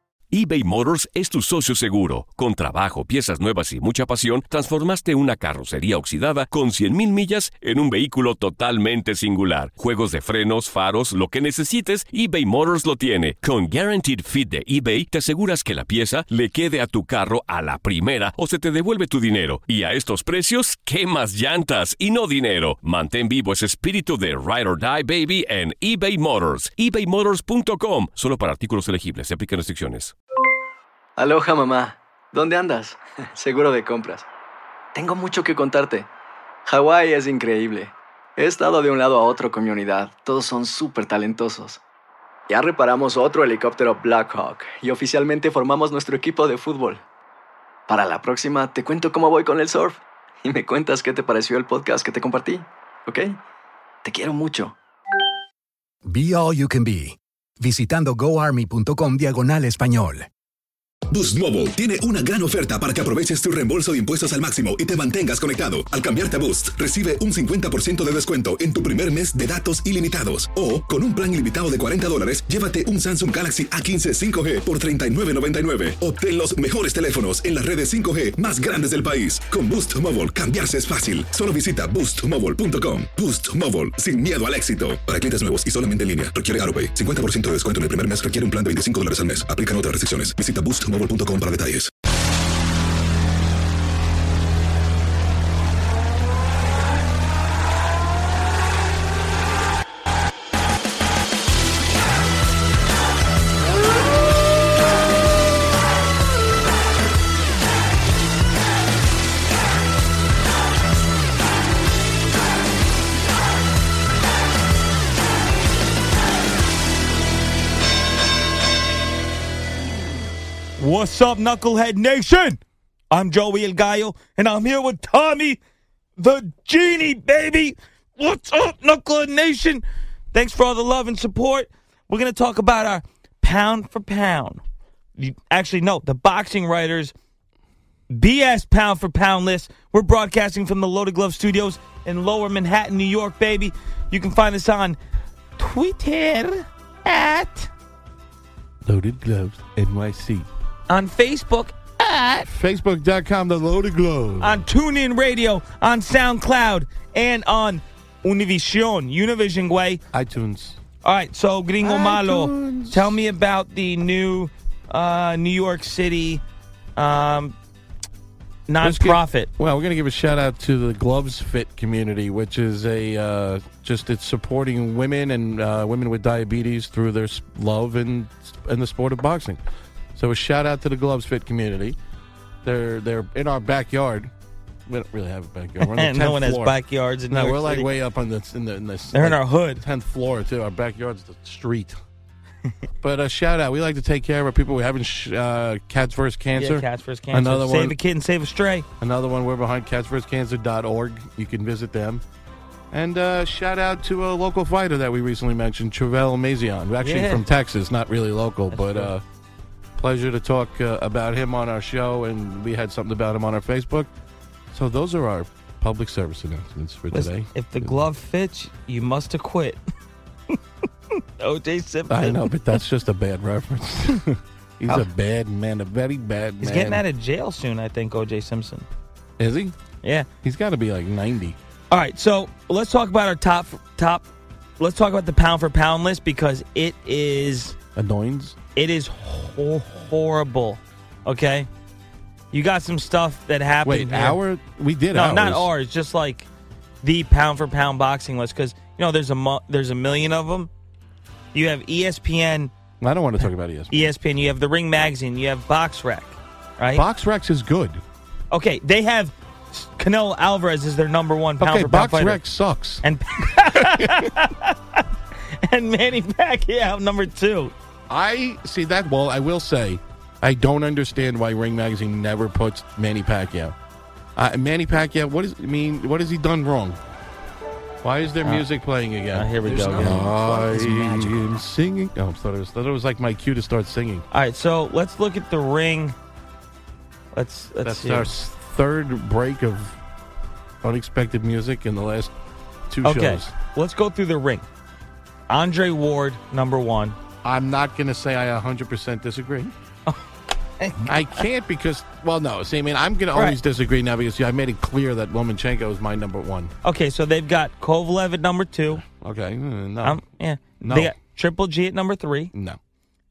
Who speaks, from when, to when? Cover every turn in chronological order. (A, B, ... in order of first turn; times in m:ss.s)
0:00.3-0:30.1 A
0:31.2-0:34.3 B
0:34.9-0:36.1 B
0:36.7-0:41.8 B
0:42.5-0:47.0 B
0:47.9-0:53.4 B
0:54.0-0:54.8 B
0:56.0-1:00.3 C
1:01.1-1:31.9 D
2:00.8-2:02.6 E
2:03.1-2:05.6 E
2:06.2-2:14.6 E
2:15.2-2:17.1 E
2:18.1-2:25.0 E
2:25.6-2:27.7 E
2:28.9-2:30.5 F
2:30.9-2:31.8 E
2:32.1-2:34.6 F
2:34.4-2:40.0 E
2:40.1-2:40.8 F
2:41.0-2:46.4 E
2:41.8-2:43.2 F
2:47.0-2:47.6 E
2:48.7-2:49.5 E
2:48.8-2:59.6 F
3:00.2-3:02.0 F
3:02.6-3:04.3 F
3:04.9-3:06.8 F
3:05.8-3:07.9 E
3:07.3-3:12.0 F
3:09.1-3:09.8 E
3:13.0-3:18.0 F
3:16.6-3:18.9 E
3:19.0-3:22.2 F
3:22.9-3:29.2 F
3:27.0-3:27.4 E
3:28.7-3:29.1 E
3:30.0-3:34.1 F
3:34.7-3:38.1 F
3:37.1-3:39.8 E
3:41.4-3:42.5 E
3:42.1-3:47.0 F
3:46.6-3:48.9 E
3:49.4-3:49.8 F
3:50.0-3:50.3 E
3:50.4-3:51.6 F
3:51.9-3:54.3 E
3:54.8-3:57.8 E
3:58.0-3:58.6 F
3:58.8-4:01.7 E
4:02.5-4:04.4 E
4:03.8-4:05.7 F
4:05.1-4:06.5 E
4:07.0-4:10.7 E
4:11.5-4:12.7 E
4:13.0-4:14.1 F
4:13.4-4:17.0 E
4:16.9-4:18.0 F
4:18.5-4:22.4 E
4:21.6-4:23.0 F
4:23.0-4:27.7 E
4:23.7-4:24.3 F
4:28.1-4:33.8 F
4:34.4-4:37.0 F
4:38.0-4:44.2 F
4:39.3-4:41.3 E
4:39.7-4:40.5 C
4:44.3-4:46.2 E
4:47.3-4:48.3 E
4:47.8-4:50.0 F
4:50.8-4:52.3 F
4:52.9-4:53.5 F
4:53.0-4:54.7 E
4:55.5-4:57.2 E
4:57.4-4:59.7 F
5:00.8-5:01.4 E
5:01.0-5:06.7 F
5:03.3-5:03.6 E
5:06.8-5:09.0 E
5:08.9-5:10.2 F
5:10.0-5:12.5 E
5:10.8-5:11.1 F
5:12.5-5:12.8 F